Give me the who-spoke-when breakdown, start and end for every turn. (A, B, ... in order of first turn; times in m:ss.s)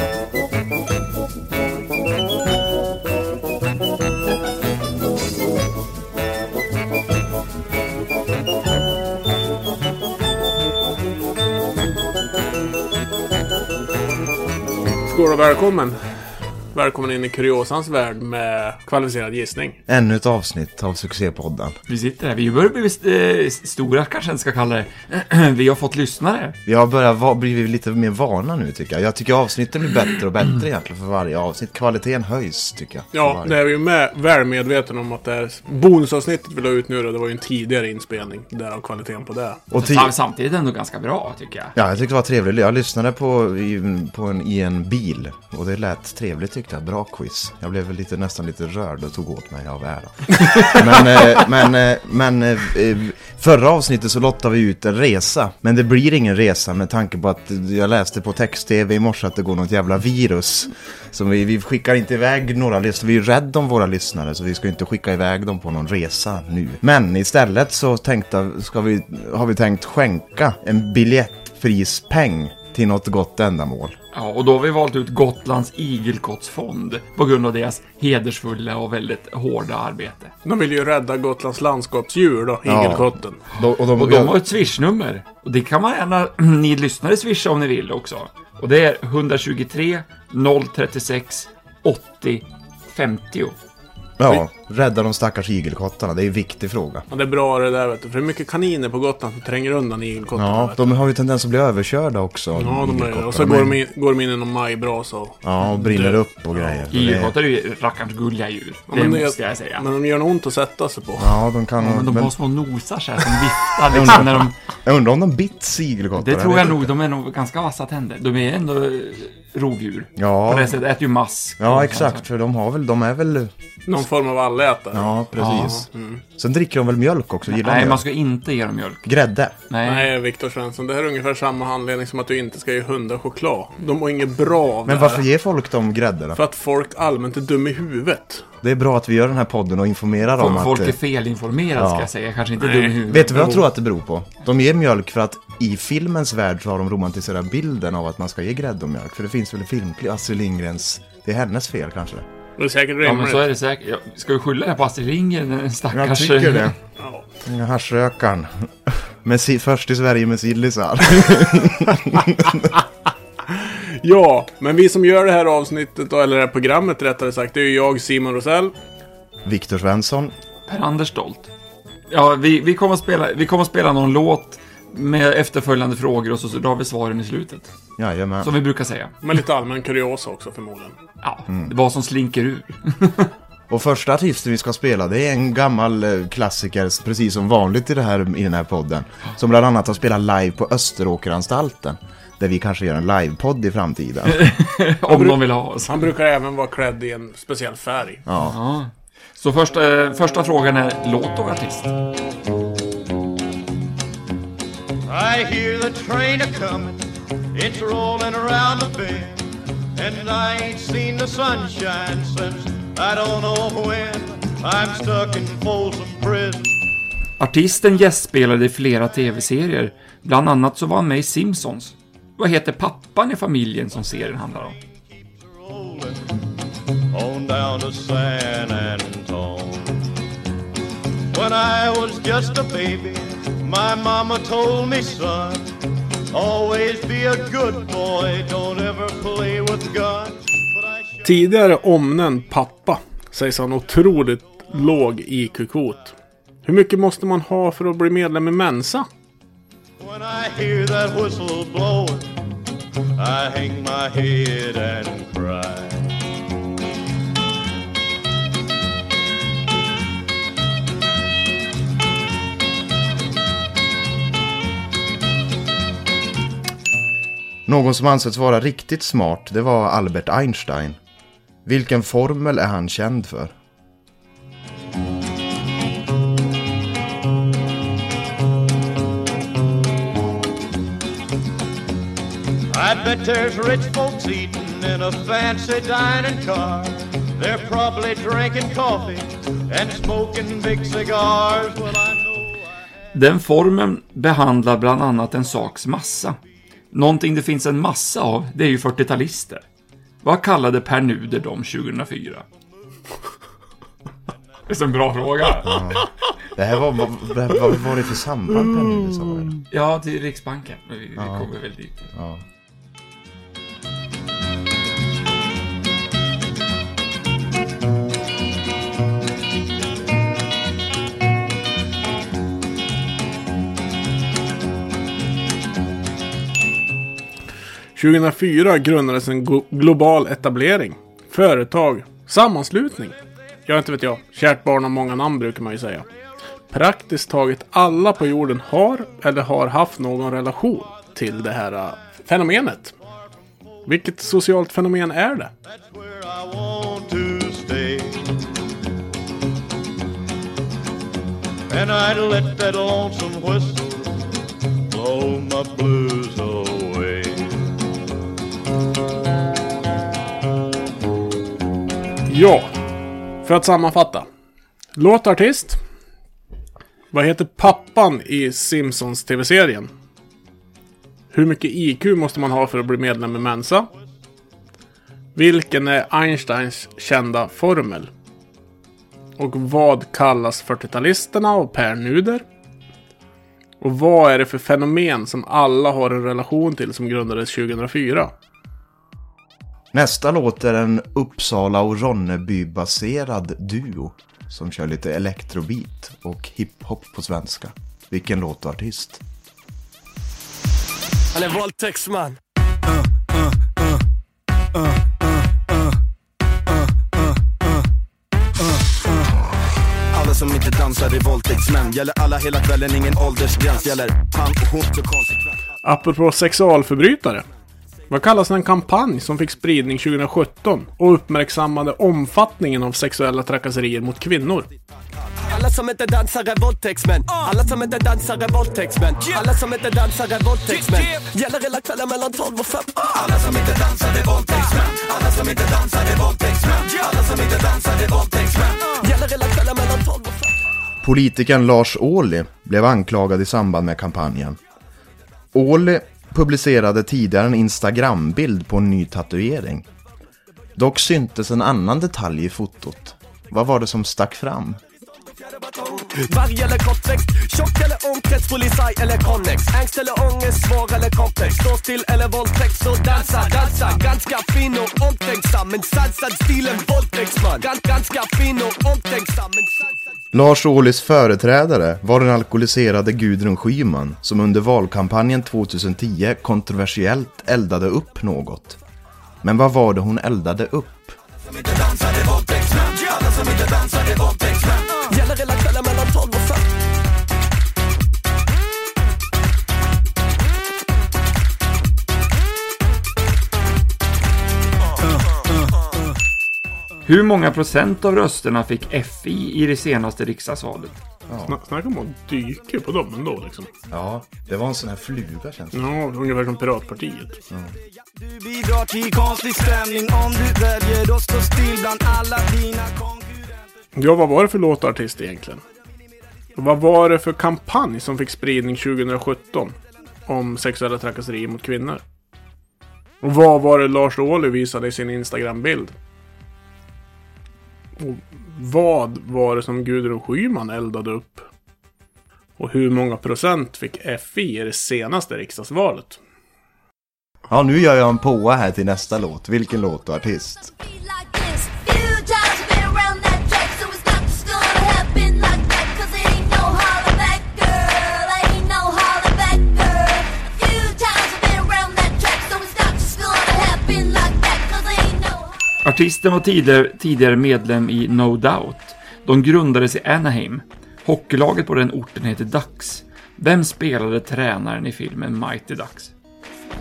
0:15.0-0:16.2 A
0:16.7-0:19.8 A
0:19.9-0:21.8 B
0:21.9-0:26.6 C
0:26.6-0:33.6 B
0:33.1-0:39.6 A
0:39.7-0:40.1 B
0:39.8-0:41.7 C
0:41.7-1:14.0 B
1:14.1-1:20.3 C
1:20.4-1:23.4 A
1:22.6-1:24.4 B
1:23.9-1:33.6 C
1:34.2-1:37.0 B
1:37.1-1:40.8 A
1:40.3-1:43.8 B
1:42.5-1:46.8 A
1:45.4-1:47.3 B
1:46.9-1:49.8 C
1:48.9-1:51.4 A
1:51.2-1:52.3 B
1:51.8-1:54.6 C
1:53.9-1:56.9 B
1:56.1-2:02.2 C
2:00.2-2:00.8 B
2:01.6-2:03.5 B
2:03.9-2:06.2 A
2:04.9-2:08.0 B
2:05.4-2:05.7 C
2:07.5-2:09.1 C
2:09.0-2:09.5 B
2:09.7-2:10.1 C
2:09.8-2:15.2 A
2:14.8-2:16.4 B
2:16.4-2:18.4 A
2:18.6-2:21.0 B
2:20.4-2:23.6 C
2:21.8-2:22.1 B
2:22.6-2:23.5 A
2:23.0-2:32.2 B
2:32.6-2:33.5 A
2:33.0-2:36.7 C
2:35.9-2:36.8 B
2:37.0-2:37.2 A
2:37.4-2:42.8 B
2:43.5-2:48.7 A
2:49.4-2:50.3 B
2:50.7-2:51.5 C
2:52.1-2:57.7 C
2:58.0-2:58.5 B
2:58.4-2:59.1 C
2:59.2-3:01.0 A
3:01.2-3:03.3 C
3:01.5-3:01.7 B
3:03.7-3:14.4 B
3:14.3-3:16.1 C
3:15.1-3:18.2 A
3:18.3-3:18.6 B
3:18.4-3:21.9 C
3:25.1-3:27.0 D
3:27.5-3:29.4 D
3:30.0-3:36.7 D
3:37.4-3:44.8 C
3:45.5-3:46.3 D
3:47.1-3:50.0 D
3:51.3-3:55.7 D
3:56.3-4:01.2 D
4:01.2-4:09.1 A
4:10.0-4:12.3 D
4:13.2-4:16.2 D
4:27.6-4:31.0 B
4:31.6-4:33.5 B
4:42.7-4:52.6 D
4:53.1-4:56.4 C
4:56.9-4:59.6 C
5:00.2-5:02.4 C
5:04.7-5:05.8 C
5:05.6-5:09.6 B
5:09.7-5:12.1 C
5:11.2-5:11.5 B
5:12.1-5:12.4 B
5:28.0-5:36.0 A
5:36.7-5:42.9 A
5:43.8-5:45.5 A
5:45.6-5:48.3 D
5:51.7-5:54.2 D
5:54.9-5:57.6 D
6:02.3-6:02.7 A
6:03.4-6:04.2 A
6:05.0-6:05.8 A
6:07.1-6:09.9 A
6:11.3-6:13.9 A
6:15.4-6:18.1 A
6:19.4-6:22.4 A
6:23.8-6:28.3 A
6:29.9-6:39.2 B
6:41.3-6:42.4 E
6:50.1-6:55.6 F
6:55.8-6:57.4 A
6:58.1-7:04.7 A
7:05.5-7:20.5 E
7:21.0-7:24.6 B
7:25.5-7:29.8 B
7:30.8-7:34.8 B
7:35.5-7:49.9 E
7:50.3-7:58.8 B
7:59.4-8:01.2 B
8:02.7-8:06.6 E
8:17.0-8:21.0 C
8:21.3-8:21.6 B
8:21.5-8:23.7 A
8:23.9-8:25.8 B
8:25.7-8:27.4 A
8:28.1-8:33.6 F
8:34.0-8:35.6 A
8:36.6-8:39.8 A
8:40.3-8:42.0 A
8:43.2-8:45.9 A
8:48.0-8:51.4 A
8:52.6-8:56.2 A
8:57.5-9:00.7 B
9:00.8-9:15.8 G
9:15.8-9:26.1 C